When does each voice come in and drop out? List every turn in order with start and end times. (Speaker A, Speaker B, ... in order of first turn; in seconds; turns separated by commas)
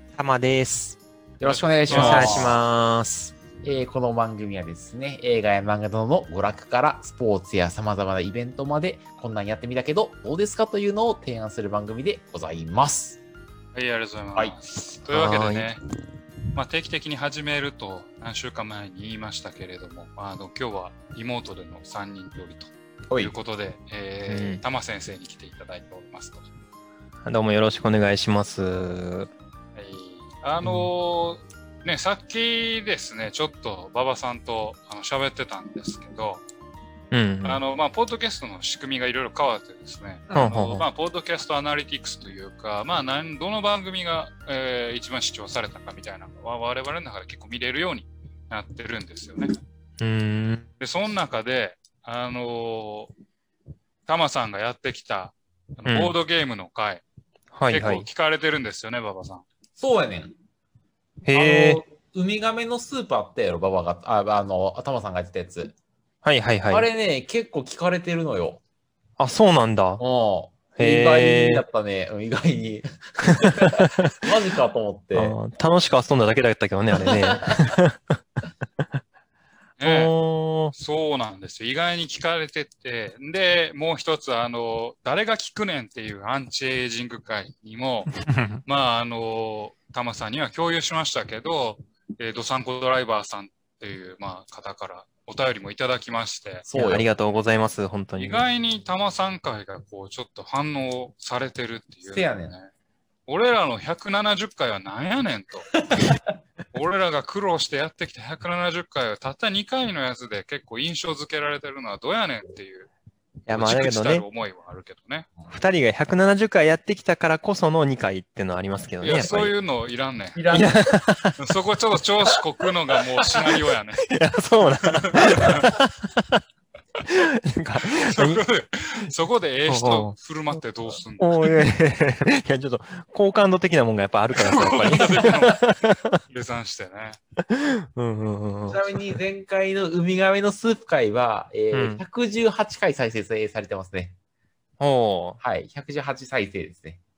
Speaker A: 0.1-1.0, Speaker B: 1.4-2.6, Speaker C: 1.4-2.5, Speaker A: 1.9-3.3, Speaker B: 3.6-13.2, Speaker C: 13.7-15.8, Speaker A: 15.1-15.7, Speaker C: 16.5-26.5, Speaker A: 24.3-24.6, Speaker A: 27.2-29.3, Speaker C: 29.7-36.4, Speaker A: 30.6-30.9, Speaker A: 37.1-37.6, Speaker C: 37.4-49.5, Speaker B: 40.3-40.5, Speaker A: 40.3-40.9, Speaker A: 50.0-50.7, Speaker C: 50.8-53.1, Speaker C: 54.0-57.0, Speaker A: 55.9-56.1, Speaker A: 57.5-58.1, Speaker C: 57.7-59.4, Speaker B: 59.8-60.3, Speaker A: 61.2-61.8, Speaker B: 61.3-65.7, Speaker A: 66.2-66.9, Speaker B: 66.7-68.6, Speaker A: 69.2-70.0, Speaker B: 70.0-75.3, Speaker A: 70.8-71.7, Speaker A: 73.2-74.2, Speaker A: 75.1-78.2, Speaker B: 76.9-77.8, Speaker C: 79.8-80.1, Speaker A: 79.8-80.7, Speaker C: 80.7-88.1, Speaker A: 88.2-88.6, Speaker C: 88.6-96.7, Speaker B: 96.7-97.0, Speaker A: 96.7-98.4, Speaker C: 98.2-102.7, Speaker B: 102.1-102.6, Speaker C: 103.3-105.7, Speaker C: 106.7-112.9, Speaker A: 113.5-114.2, Speaker C: 113.5-115.3, Speaker A: 115.5-119.5, Speaker C: 119.0-120.4, Speaker B: 120.3-120.9, Speaker A: 120.5-121.4, Speaker C: 121.4-124.1, Speaker A: 124.1-126.4, Speaker C: 124.9-125.6, Speaker A: 127.1-128.4, Speaker C: 128.0-131.5, Speaker A: 129.7-130.1, Speaker A: 131.2-136.2, Speaker C: 134.3-135.7, Speaker B: 134.8-135.4, Speaker C: 136.2-137.2, Speaker A: 137.4-139.2, Speaker B: 138.7-144.2, Speaker A: 141.7-142.0, Speaker A: 144.8-145.4, Speaker B: 145.4-147.0